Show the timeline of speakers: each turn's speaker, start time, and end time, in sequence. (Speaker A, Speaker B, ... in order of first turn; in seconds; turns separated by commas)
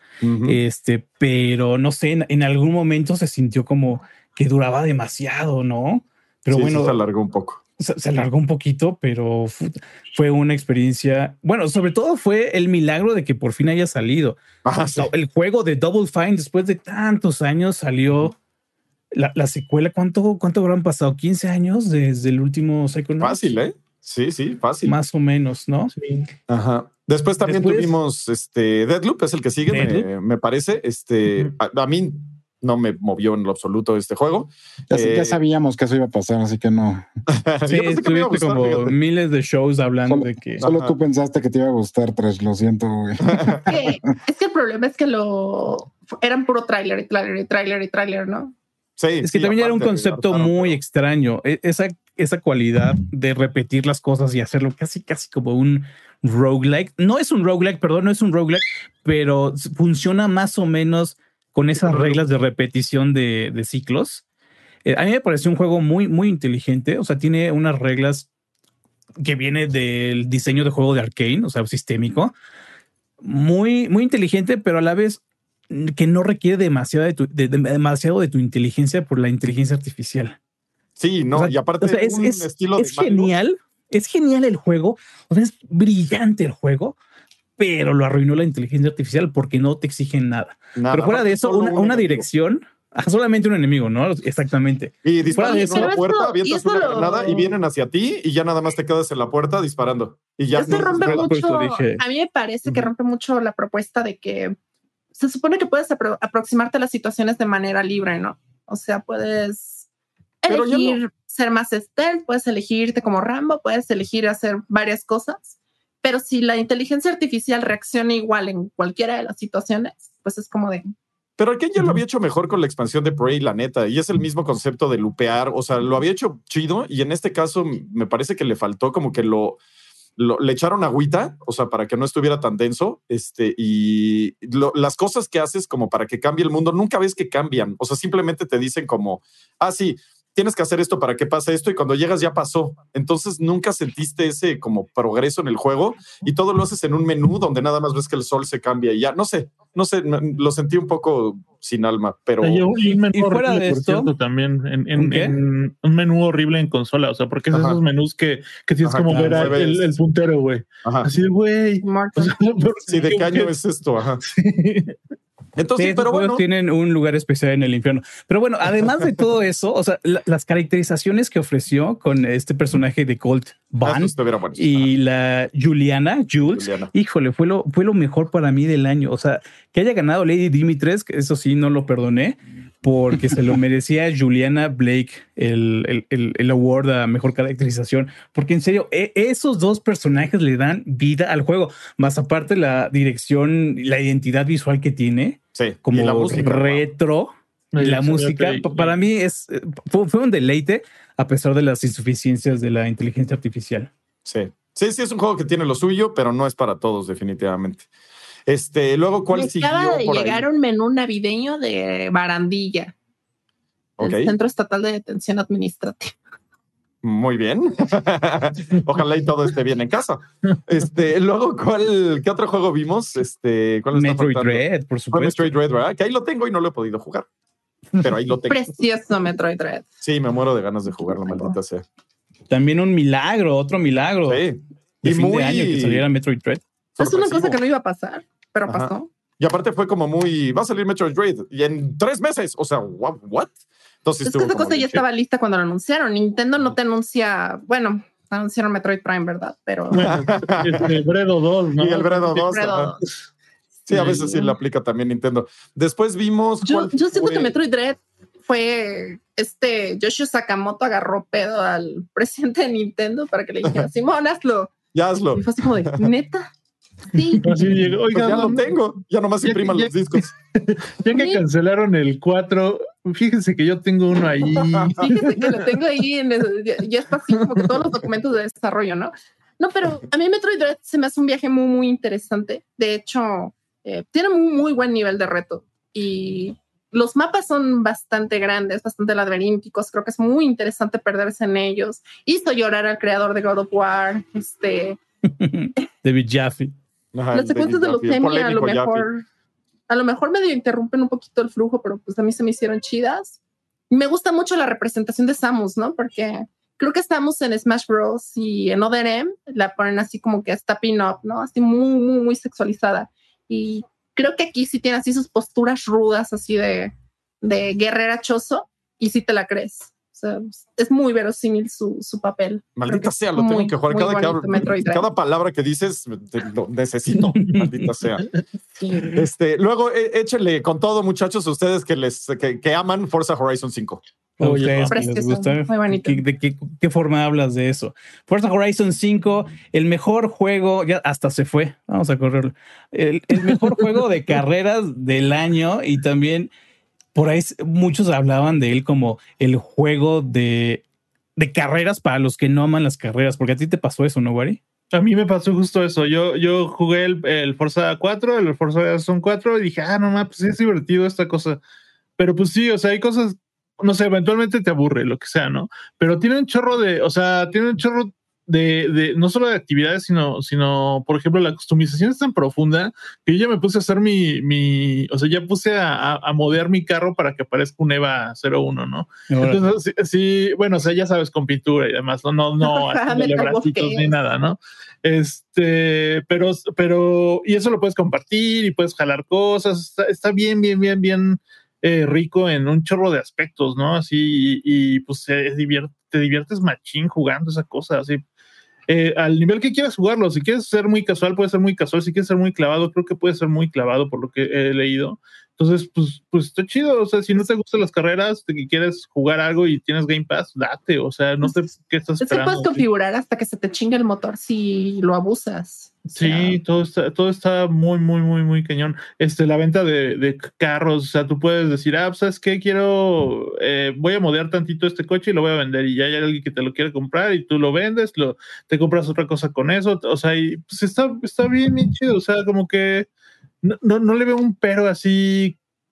Speaker A: 0.2-0.6, Speaker B: 0.5-7.0, Speaker A: 6.5-7.6, Speaker B: 7.8-14.4, Speaker A: 14.6-15.1, Speaker B: 15.0-18.4, Speaker B: 19.1-23.6, Speaker A: 23.2-24.9, Speaker B: 24.8-25.9, Speaker C: 25.9-26.3, Speaker A: 26.5-35.4, Speaker B: 27.4-27.9, Speaker B: 29.7-30.1, Speaker D: 34.9-37.1, Speaker A: 37.3-39.0, Speaker B: 37.7-40.7, Speaker D: 40.1-43.9, Speaker A: 40.6-41.0, Speaker A: 43.2-43.7, Speaker E: 43.7-48.5, Speaker A: 49.0-50.8, Speaker B: 49.2-64.2, Speaker B: 64.9-68.3, Speaker B: 69.2-72.3, Speaker B: 73.2-80.4, Speaker A: 81.0-83.3, Speaker B: 81.3-87.0, Speaker B: 87.6-95.9, Speaker A: 90.8-92.2, Speaker A: 95.0-101.3, Speaker E: 95.3-97.5, Speaker E: 100.5-104.6, Speaker B: 100.7-102.0, Speaker E: 105.1-109.9, Speaker E: 110.4-120.9, Speaker A: 110.5-111.0, Speaker A: 121.4-129.6, Speaker A: 130.2-152.7, Speaker C: 152.4-163.5, Speaker B: 153.1-154.1, Speaker B: 155.0-155.4, Speaker A: 157.5-157.8, Speaker A: 158.8-159.9, Speaker B: 159.1-159.6, Speaker E: 161.8-162.4, Speaker A: 162.9-164.2, Speaker C: 164.2-165.0, Speaker A: 165.6-166.4, Speaker B: 165.8-203.9, Speaker A: 173.8-174.9, Speaker A: 176.4-176.9, Speaker A: 195.6-196.8, Speaker C: 197.7-198.9, Speaker A: 204.2-207.9, Speaker A: 208.5-210.5, Speaker E: 209.3-212.9, Speaker E: 214.0-216.2, Speaker A: 214.0-214.3, Speaker A: 217.0-227.3, Speaker B: 223.9-225.6, Speaker A: 228.0-228.6, Speaker E: 228.5-229.9, Speaker A: 230.0-231.8, Speaker E: 231.1-231.6, Speaker B: 232.5-234.4, Speaker A: 234.3-236.1, Speaker B: 235.0-236.6, Speaker A: 237.0-237.6, Speaker E: 237.0-239.1, Speaker A: 238.7-243.5, Speaker A: 244.0-245.0, Speaker E: 244.2-250.1, Speaker C: 249.9-253.1, Speaker A: 250.1-250.9, Speaker A: 251.8-253.0, Speaker E: 252.4-253.0, Speaker E: 253.9-254.5, Speaker A: 253.9-257.6, Speaker E: 256.6-264.8, Speaker A: 264.9-266.0, Speaker E: 265.3-266.5, Speaker E: 267.1-267.8, Speaker C: 267.4-268.8, Speaker A: 268.1-270.3, Speaker C: 269.4-275.6, Speaker E: 271.1-271.4, Speaker A: 274.7-275.2, Speaker E: 275.0-295.0, Speaker B: 295.4-296.8, Speaker A: 297.1-299.1, Speaker E: 297.3-299.2, Speaker E: 299.9-325.1, Speaker A: 322.8-328.3, Speaker B: 327.4-327.7, Speaker E: 328.8-329.2, Speaker A: 329.1-334.0, Speaker B: 334.4-346.5, Speaker C: 334.4-335.0, Speaker E: 334.9-336.2, Speaker B: 347.1-350.8, Speaker B: 351.4-354.6, Speaker C: 354.9-361.6, Speaker C: 362.2-398.2, Speaker B: 379.3-379.6, Speaker E: 382.6-384.1, Speaker C: 398.9-412.9, Speaker E: 412.2-416.6, Speaker C: 416.1-433.1, Speaker C: 433.6-435.6